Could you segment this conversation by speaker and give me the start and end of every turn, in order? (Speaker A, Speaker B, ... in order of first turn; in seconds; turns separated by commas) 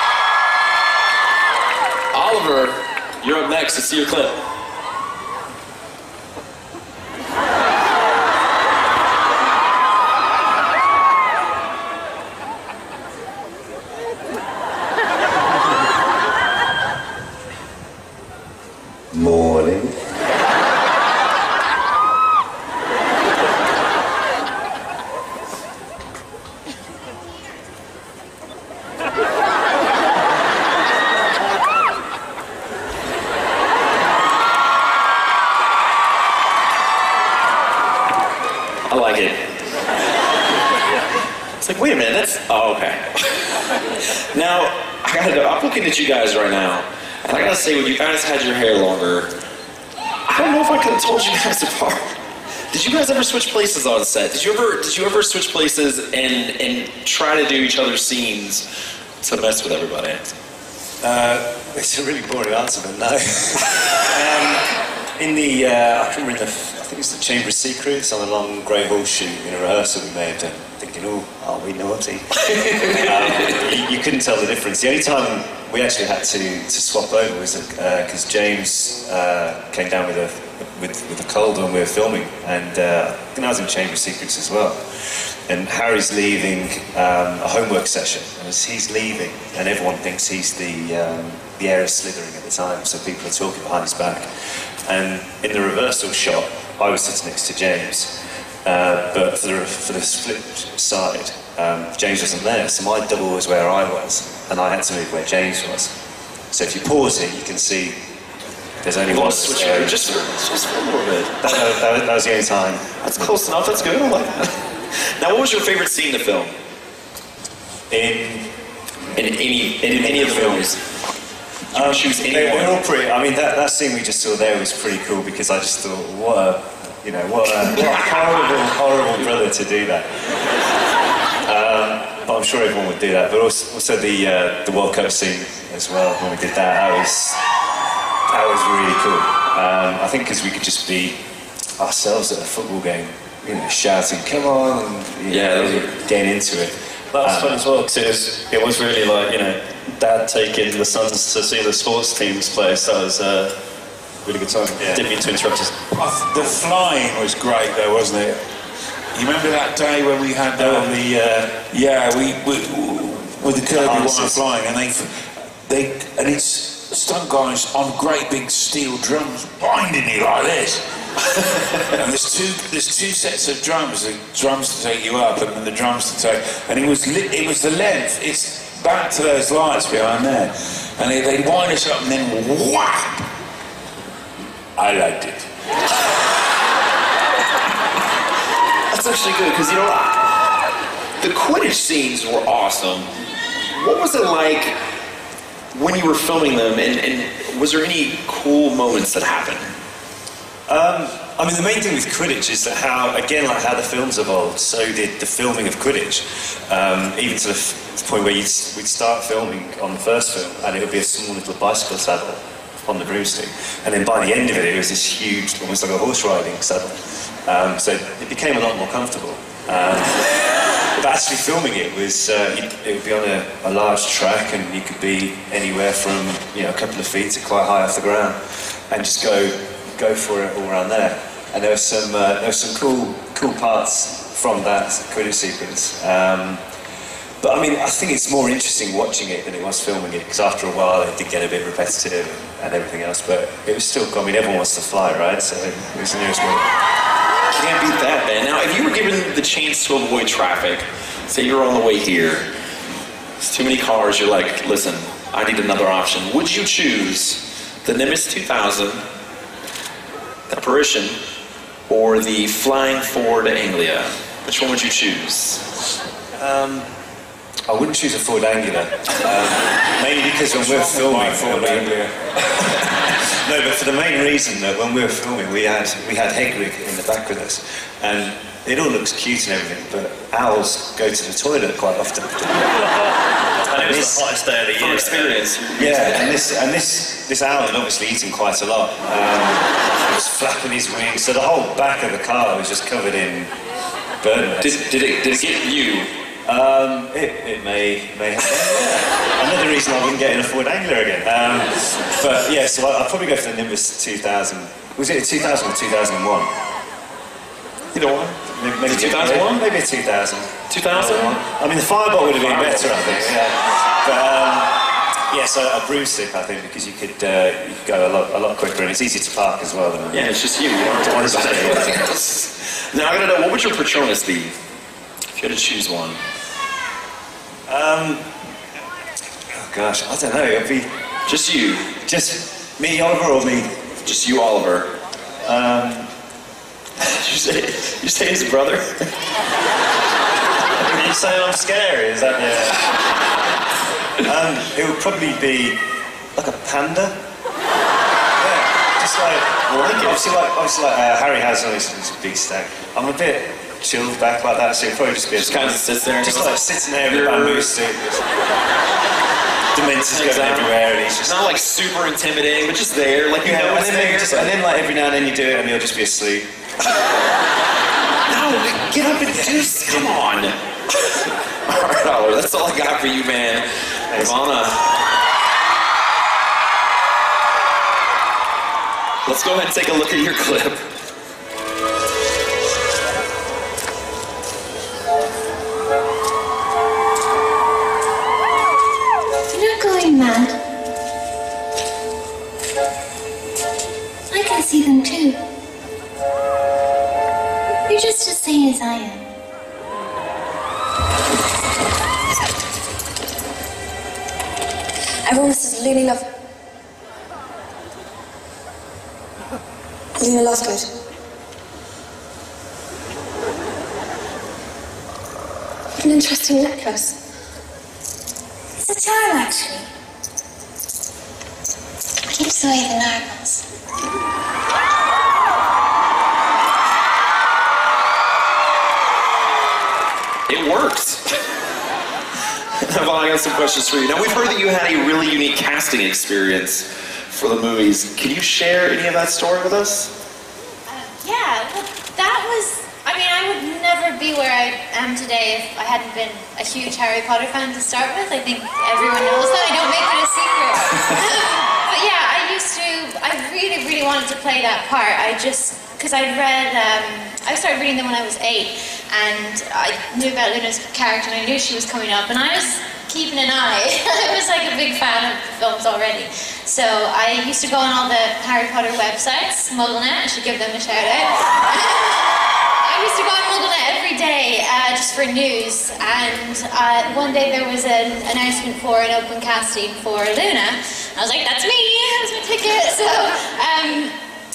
Speaker A: 2.1-4.4, Speaker A: 38.9-39.4, Speaker A: 41.6-43.5, Speaker A: 44.3-49.3, Speaker A: 50.3-52.0, Speaker A: 52.7-58.6, Speaker A: 59.2-60.2, Speaker B: 61.0-64.7, Speaker B: 65.2-84.8, Speaker B: 85.5-94.3, Speaker B: 94.9-98.1, Speaker B: 98.7-105.9, Speaker B: 106.5-108.0, Speaker B: 108.8-110.2, Speaker A: 109.1-111.6, Speaker B: 111.4-112.8, Speaker A: 113.0-116.5, Speaker B: 117.9-118.5, Speaker A: 119.2-120.8, Speaker B: 119.8-120.7, Speaker A: 121.7-122.8, Speaker B: 121.7-130.1, Speaker B: 131.4-137.4, Speaker B: 138.3-141.2, Speaker B: 141.8-147.6, Speaker A: 145.3-146.0, Speaker C: 147.1-153.5, Speaker C: 154.2-155.8, Speaker B: 154.8-155.1, Speaker D: 155.9-158.4, Speaker D: 159.1-161.1, Speaker B: 160.6-161.5, Speaker D: 161.7-170.8, Speaker B: 163.7-164.4, Speaker D: 171.9-183.3, Speaker D: 184.8-185.5, Speaker A: 188.9-190.3, Speaker A: 191.2-193.1, Speaker A: 193.7-194.8, Speaker A: 195.7-199.7, Speaker B: 200.7-220.3, Speaker B: 220.9-228.4, Speaker B: 228.9-236.6, Speaker B: 237.4-246.7, Speaker A: 247.5-252.4, Speaker A: 253.4-259.0, Speaker A: 260.5-261.2, Speaker A: 261.9-265.6, Speaker B: 266.4-266.9, Speaker B: 267.7-272.0, Speaker D: 270.4-272.1, Speaker B: 273.4-282.7, Speaker C: 283.7-285.4, Speaker B: 283.8-284.3, Speaker A: 284.8-286.4, Speaker B: 285.7-293.5, Speaker B: 294.2-295.7, Speaker A: 294.6-296.1, Speaker B: 296.5-306.5, Speaker A: 307.9-309.6, Speaker B: 308.5-314.8, Speaker A: 310.7-311.4, Speaker A: 312.4-313.4, Speaker B: 315.3-322.1, Speaker A: 320.1-324.5, Speaker A: 325.4-326.2, Speaker B: 327.7-328.2, Speaker B: 329.6-330.9, Speaker A: 331.3-331.9, Speaker B: 332.0-333.7, Speaker A: 334.1-334.9, Speaker B: 335.5-336.1, Speaker A: 337.1-339.1, Speaker B: 340.9-342.8, Speaker C: 341.2-342.5, Speaker B: 344.2-345.8, Speaker B: 346.4-347.1, Speaker B: 348.4-358.3, Speaker A: 349.7-350.3, Speaker A: 355.4-357.7, Speaker B: 359.7-361.6, Speaker A: 360.0-364.5, Speaker B: 363.4-366.5, Speaker A: 368.3-374.9, Speaker B: 369.3-370.1, Speaker B: 374.1-374.4, Speaker A: 379.3-380.8, Speaker E: 389.5-390.6, Speaker E: 394.3-395.4, Speaker E: 397.9-399.2, Speaker F: 405.3-406.2, Speaker F: 410.2-410.9, Speaker F: 416.0-417.2, Speaker E: 418.8-419.9, Speaker E: 422.3-423.6, Speaker A: 430.5-431.2, Speaker A: 432.8-440.1, Speaker G: 440.9-484.1